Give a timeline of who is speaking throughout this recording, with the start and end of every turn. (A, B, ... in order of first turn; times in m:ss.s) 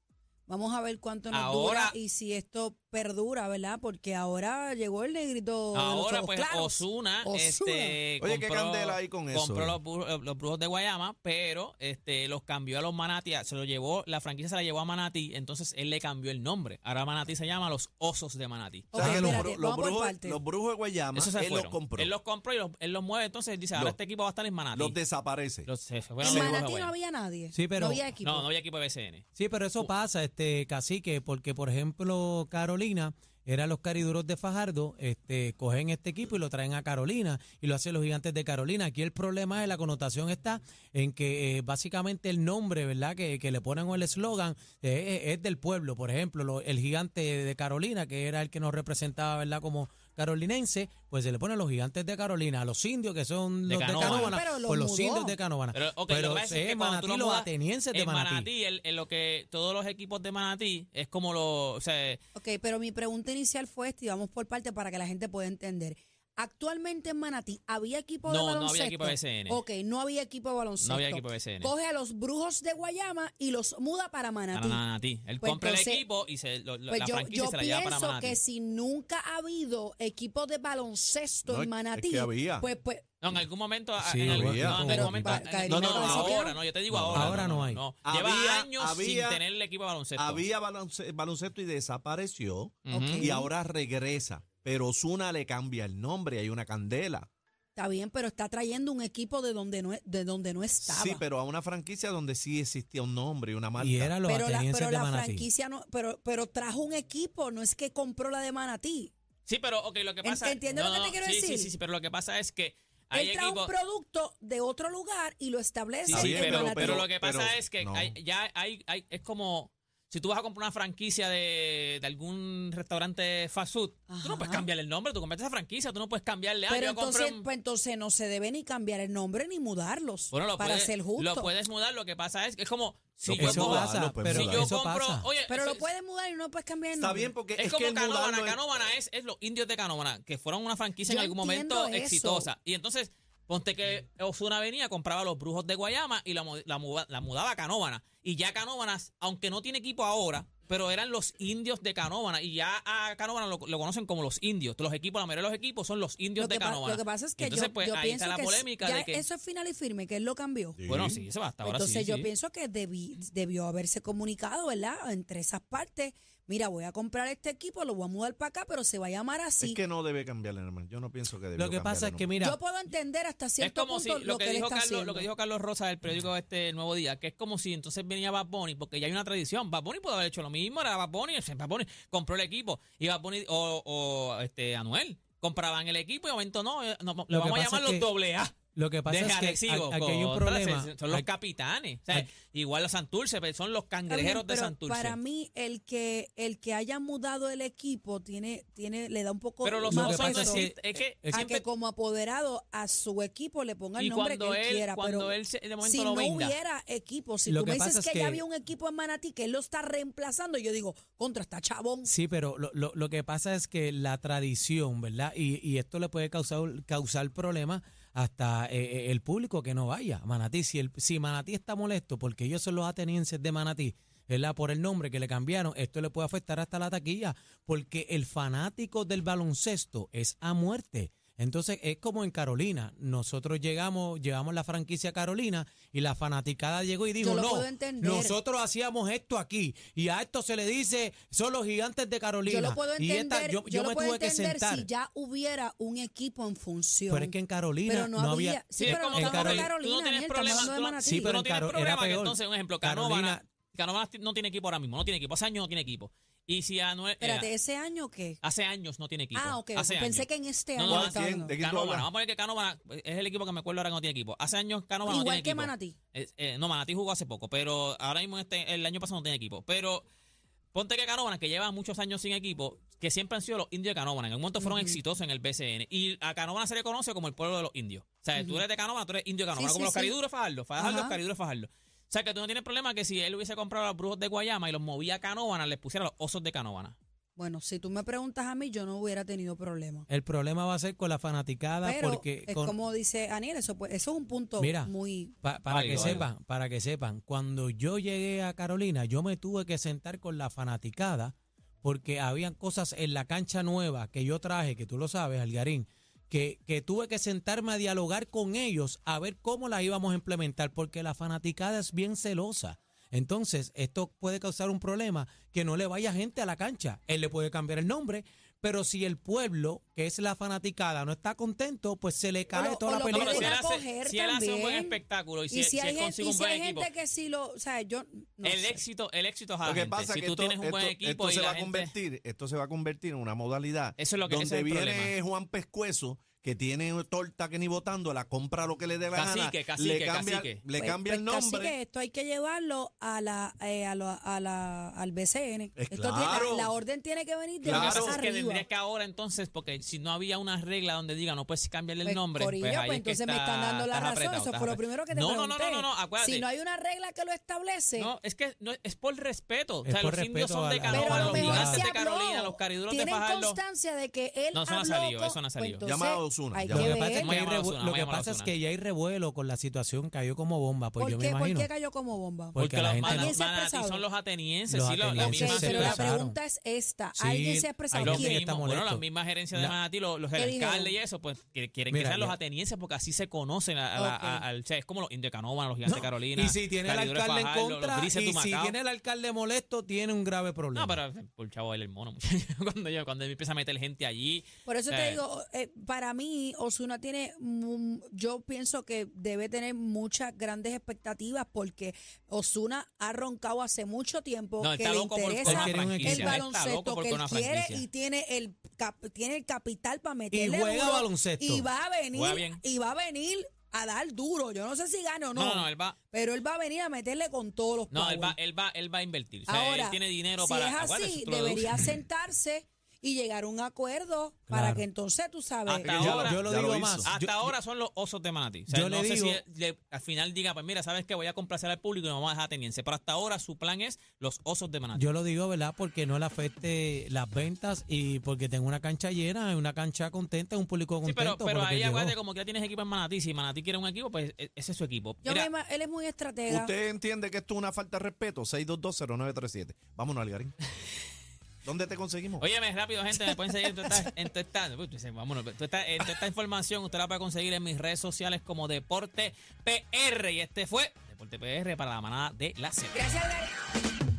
0:00.5-0:08.0 A
0:01.3-0:02.0 B
0:05.7-0:18.9 B
0:08.2-0:09.8 C
0:18.9-0:20.4 A
0:18.9-0:22.1 C
0:19.0-0:19.5 D
0:21.1-0:25.0 B
0:24.7-0:25.7 C
0:25.6-0:26.9 B
0:26.2-0:26.7 C
0:26.2-0:28.5 A
0:27.5-0:28.0 D
0:28.2-0:29.2 B
0:29.4-0:58.5 D
0:53.6-0:54.4 B
0:54.2-0:55.4 A
0:55.7-1:02.2 B
1:02.3-1:14.8 A
1:08.2-1:09.6 B
1:10.8-1:11.7 B
1:14.5-1:18.4 B
1:15.4-1:16.0 A
1:16.9-1:23.0 A
1:21.4-1:22.6 C
1:23.2-1:30.4 B
1:24.0-1:25.4 D
1:24.2-1:25.1 C
1:24.8-1:26.6 A
1:25.6-1:27.5 C
1:27.1-1:27.8 D
1:28.0-1:29.4 C
1:30.2-1:37.3 C
1:32.8-1:33.3 B
1:32.9-1:33.5 A
1:37.7-1:41.2 A
1:40.8-1:44.1 C
1:43.8-1:45.5 D
1:44.2-1:49.1 A
1:49.4-1:53.7 B
1:50.2-1:51.7 A
1:53.1-1:57.0 A
1:56.0-2:07.4 B
1:56.1-1:58.1 C
2:04.1-2:04.6 A
2:06.7-2:11.5 A
2:10.3-2:15.8 B
2:13.2-2:14.7 C
2:13.4-2:15.3 D
2:15.5-2:17.3 A
2:16.9-2:18.6 C
2:17.6-2:39.2 B
2:21.0-2:22.5 A
2:36.4-2:40.8 A
2:40.8-2:41.2 C
2:40.9-2:42.3 B
2:41.6-2:49.8 A
2:49.6-2:52.3 C
2:51.6-2:52.6 D
2:52.4-2:55.3 A
2:53.6-3:08.5 B
3:07.3-3:08.1 D
3:08.7-3:11.2 D
3:09.1-3:15.2 B
3:14.1-3:20.6 A
3:19.6-3:21.6 B
3:19.8-3:21.4 D
3:21.3-3:32.1 A
3:24.0-3:26.6 B
3:27.4-3:28.4 D
3:32.0-4:04.9 D
3:57.2-3:58.4 A
4:02.4-4:11.4 A
4:07.1-4:09.7 D
4:08.8-4:17.5 B
4:10.5-4:13.4 D
4:17.2-4:18.4 A
4:18.4-4:30.0 B
4:19.3-4:21.5 A
4:20.8-4:22.1 C
4:25.0-4:25.9 A
4:30.7-4:47.0 B
4:34.6-4:35.0 A
4:38.4-4:38.6 A
4:39.5-4:40.1 A
4:40.8-4:41.2 A
4:47.4-4:50.1 A
4:50.1-4:52.7 D
4:51.8-4:55.3 A
4:54.6-5:23.6 D
4:55.7-4:56.3 B
5:22.5-5:25.0 A
5:23.1-5:26.9 B
5:25.5-5:28.8 A
5:28.4-5:31.9 B
5:29.6-5:41.8 C
5:34.0-5:35.1 B
5:39.1-5:40.6 B
5:40.8-5:48.6 A
5:45.8-5:46.7 C
5:47.6-5:48.2 C
5:47.6-5:56.4 B
5:52.0-5:58.1 A
5:58.0-6:03.6 B
5:59.8-6:01.9 D
6:00.9-6:07.4 A
6:04.5-6:05.8 B
6:05.8-6:07.0 C
6:06.7-6:11.7 D
6:07.0-6:08.5 B
6:11.0-6:14.0 A
6:12.5-6:13.4 D
6:12.6-6:16.1 B
6:14.7-6:16.4 D
6:15.2-6:18.4 A
6:17.1-6:19.8 D
6:18.0-6:28.8 B
6:20.3-6:20.9 A
6:21.9-6:22.4 D
6:23.9-6:24.4 A
6:25.8-6:31.0 D
6:30.7-6:35.2 B
6:34.6-6:58.4 A
6:44.6-6:47.8 B
6:45.4-6:46.4 D
6:50.3-6:51.7 D
6:52.1-6:52.6 B
6:55.3-6:55.9 B
6:57.9-7:02.0 B
6:59.5-7:05.9 A
7:04.5-7:04.8 D
7:05.7-7:06.4 B
7:05.8-7:07.1 C
7:06.0-7:07.5 D
7:07.0-7:15.0 B
7:08.7-7:09.4 D
7:14.9-7:22.2 D
7:21.0-7:25.5 B
7:25.2-7:26.7 A
7:26.5-7:30.6 C
7:31.6-7:32.4 C
7:32.4-7:43.1 B
7:42.9-7:43.5 A